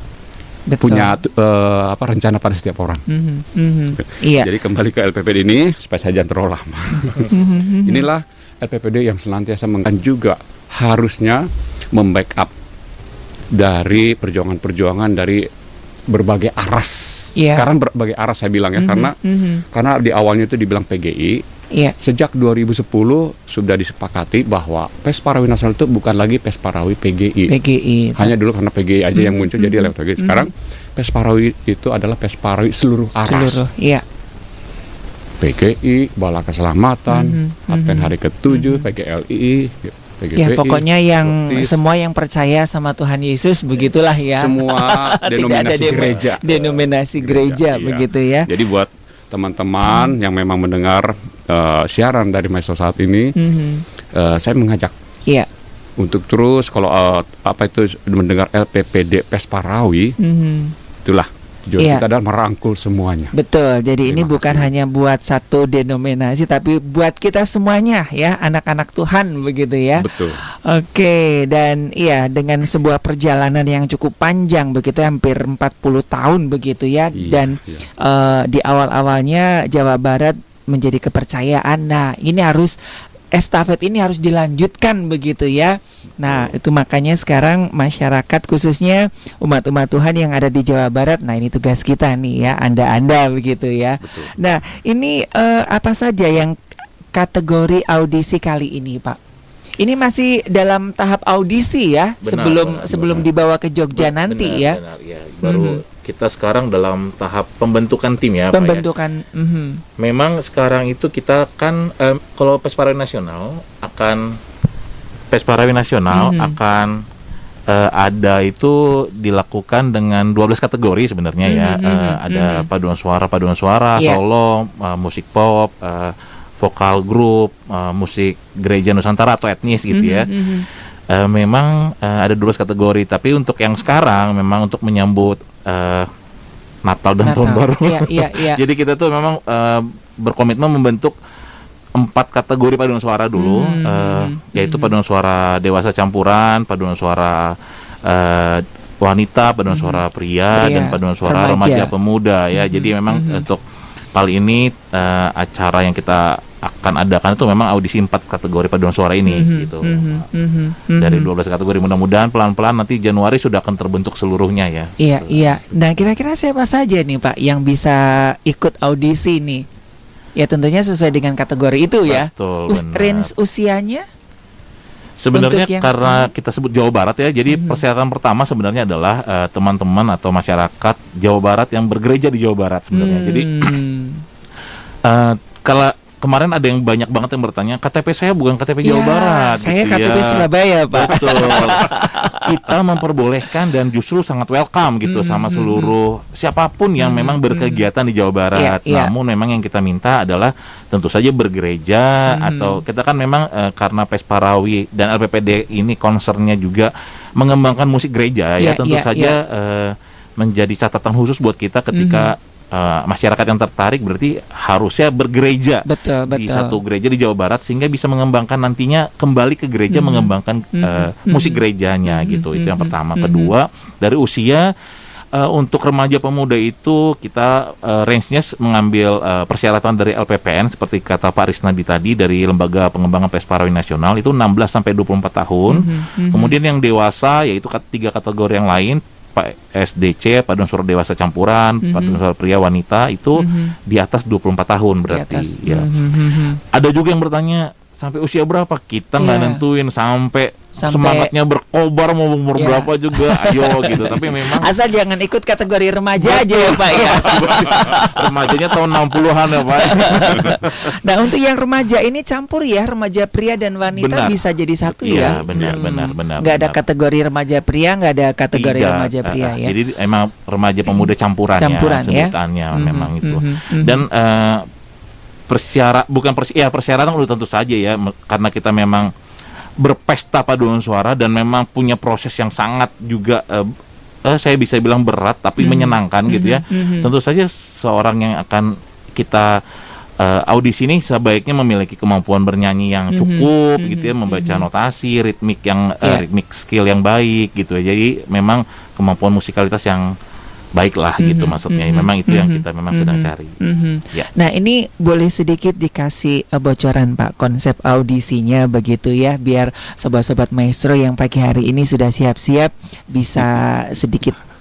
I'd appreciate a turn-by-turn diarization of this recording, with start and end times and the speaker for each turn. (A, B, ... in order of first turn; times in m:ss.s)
0:00.7-0:01.1 A
0:00.8-0:03.0 B
0:03.1-0:04.5 A
0:04.0-0:12.5 B
0:07.2-0:08.1 A
0:13.5-0:15.5 B
0:16.1-0:21.4 B
0:17.4-0:17.7 A
0:18.8-0:19.6 A
0:22.0-0:27.5 B
0:27.5-0:28.3 A
0:28.2-0:33.6 B
0:29.1-0:30.5 A
0:33.2-0:34.0 A
0:35.4-0:41.8 B
0:37.1-0:38.9 A
0:40.4-0:48.5 A
0:44.3-0:53.4 B
0:49.8-0:50.1 A
0:53.4-0:53.8 A
0:54.1-0:54.9 B
0:56.0-1:00.2 B
1:00.2-1:00.7 A
1:01.0-1:03.3 B
1:01.8-1:02.0 A
1:03.3-1:22.8 A
1:04.0-1:04.7 B
1:10.0-1:10.4 B
1:17.2-1:17.9 B
1:23.3-1:36.6 A
1:34.0-1:34.3 B
1:37.1-1:39.2 A
1:39.8-1:44.8 A
1:42.2-1:43.3 C
1:44.0-1:48.8 C
1:45.4-1:45.8 A
1:48.5-1:49.8 A
1:50.0-1:54.4 C
1:55.3-1:57.0 C
1:56.1-1:56.6 A
1:57.7-2:16.1 C
2:01.4-2:02.6 A
2:09.9-2:10.6 A
2:16.8-2:21.1 C
2:17.2-2:18.6 A
2:21.9-2:33.6 C
2:23.4-2:24.9 A
2:29.7-2:30.0 A
2:30.5-2:31.9 A
2:32.5-2:33.4 A
2:34.1-2:40.3 C
2:39.3-2:41.3 A
2:41.0-2:45.1 C
2:45.0-2:49.6 A
2:50.4-2:54.0 A
2:52.1-2:53.3 C
2:55.2-3:03.7 C
2:55.3-2:56.3 A
2:57.5-2:57.8 A
3:02.9-3:04.2 A
3:05.0-3:44.7 C
3:08.8-3:12.7 A
3:15.1-3:15.9 A
3:17.0-3:17.8 A
3:18.5-3:19.1 A
3:22.3-3:22.8 A
3:28.6-3:29.3 A
3:31.9-3:32.3 A
3:35.8-3:36.8 A
3:39.9-3:43.5 A
3:45.3-4:14.7 C
3:55.7-3:56.6 A
4:01.8-4:02.2 A
4:03.4-4:03.7 A
4:05.1-4:06.6 A
4:09.2-4:09.6 A
4:10.8-4:11.3 A
4:12.6-4:29.7 A
4:16.2-4:21.0 C
4:23.9-4:24.4 C
4:25.0-4:26.8 C
4:25.2-4:25.8 B
4:28.5-4:34.7 C
4:31.6-4:34.0 A
4:35.5-4:39.1 C
4:39.8-4:49.6 C
4:45.6-4:47.1 A
4:50.2-5:00.1 C
4:53.1-4:54.6 A
5:00.7-5:03.5 C
5:01.2-5:14.4 A